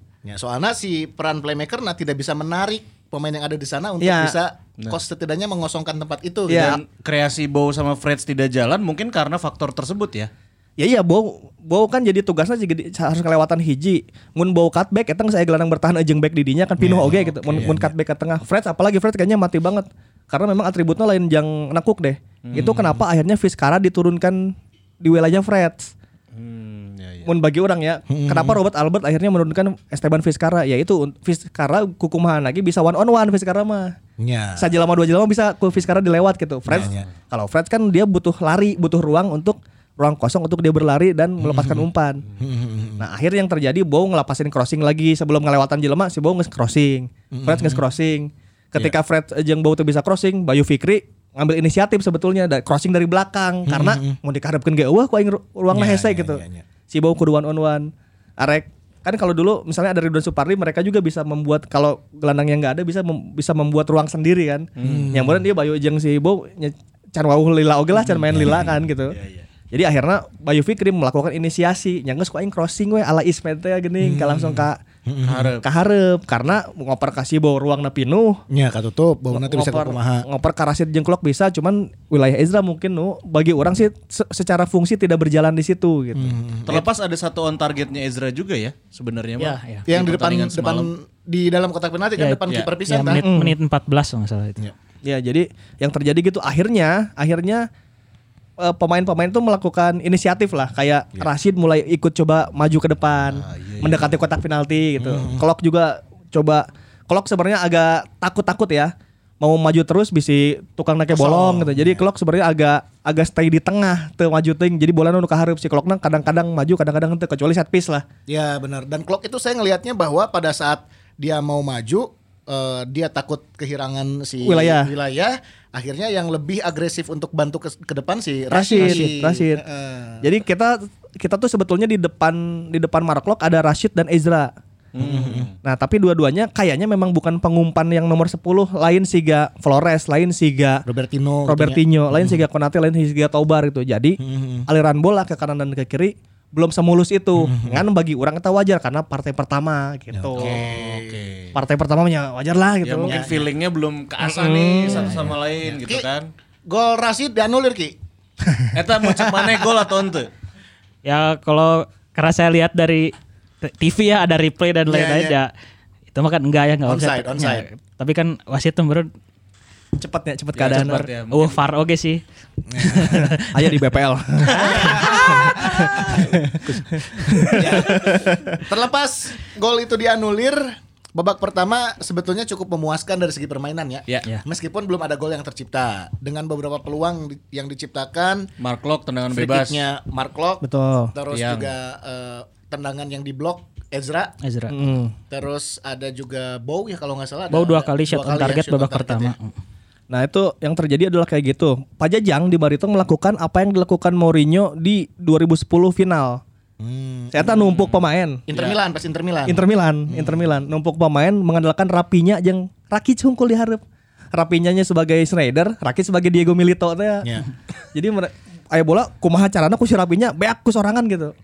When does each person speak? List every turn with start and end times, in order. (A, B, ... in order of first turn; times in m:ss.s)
0:00.2-0:06.8 A
0:04.0-0:04.4 B
0:06.5-0:06.8 B
0:06.5-0:10.3 C
0:10.8-0:25.9 B
0:16.8-0:17.1 A
0:17.1-0:17.9 C
0:22.4-0:22.9 C
0:22.5-0:23.0 A
0:26.3-0:27.3 C
0:27.2-0:33.9 B
0:28.1-0:28.6 A
0:34.2-0:34.7 A
0:34.6-0:42.2 B
0:36.7-0:37.1 A
0:41.4-0:41.9 A
0:42.4-0:43.1 A
0:43.0-1:09.2 B
0:47.3-0:47.8 A
0:53.7-0:54.2 A
0:55.7-0:56.6 A
1:04.8-1:05.2 C
1:04.8-1:05.4 A
1:08.1-1:09.5 C
1:09.7-1:14.8 B
1:14.0-1:15.5 A
1:15.2-1:15.6 C
1:15.6-1:18.4 B
1:18.5-1:20.2 A
1:19.3-1:26.8 B
1:26.1-1:26.9 A
1:26.7-1:30.9 C
1:29.4-1:29.9 D
1:29.9-1:33.2 A
1:32.2-1:34.6 D
1:33.2-1:33.6 B
1:35.0-1:37.7 B
1:38.6-1:58.0 B
1:43.4-1:44.2 C
1:45.0-1:45.4 A
1:51.1-1:52.0 A
1:58.3-2:10.3 A
2:04.4-2:04.9 B
2:08.5-2:09.6 B
2:10.2-2:14.5 B
2:15.0-2:15.5 C
2:15.0-2:15.5 A
2:15.6-2:20.8 B
2:20.9-2:22.4 A
2:21.5-2:30.6 B
2:24.2-2:24.7 A
2:27.4-2:27.8 A
2:30.1-2:31.2 A
2:30.4-2:31.6 C
2:31.6-2:33.1 B
2:32.8-2:36.3 C
2:33.1-2:33.4 A
2:34.2-2:35.3 B
2:34.9-2:35.3 D
2:35.7-2:36.1 A
2:36.7-2:38.0 A
2:38.5-2:39.6 A
2:38.7-2:40.3 C
2:41.0-2:45.5 D
2:44.9-2:45.4 A
2:46.1-2:49.1 D
2:46.9-2:47.7 A
2:50.0-2:51.1 B
2:50.6-2:51.6 C
2:51.3-2:52.2 D
2:52.7-2:53.3 A
2:52.8-2:53.5 D
2:53.5-2:58.6 B
2:54.5-2:55.3 C
2:54.6-2:56.5 A
2:57.5-3:08.5 A
3:08.6-3:09.8 C
3:09.3-3:14.4 A
3:10.6-3:11.1 B
3:11.3-3:11.7 C
3:14.4-3:14.8 D
3:14.7-3:15.2 B
3:15.3-3:19.4 A
3:17.5-3:19.5 D
3:20.1-3:26.4 B
3:26.8-3:27.7 A
3:27.3-3:28.4 B
3:27.5-3:28.8 C
3:28.5-3:30.4 A
3:29.5-3:33.8 B
3:34.3-3:37.4 B
3:37.9-3:41.3 B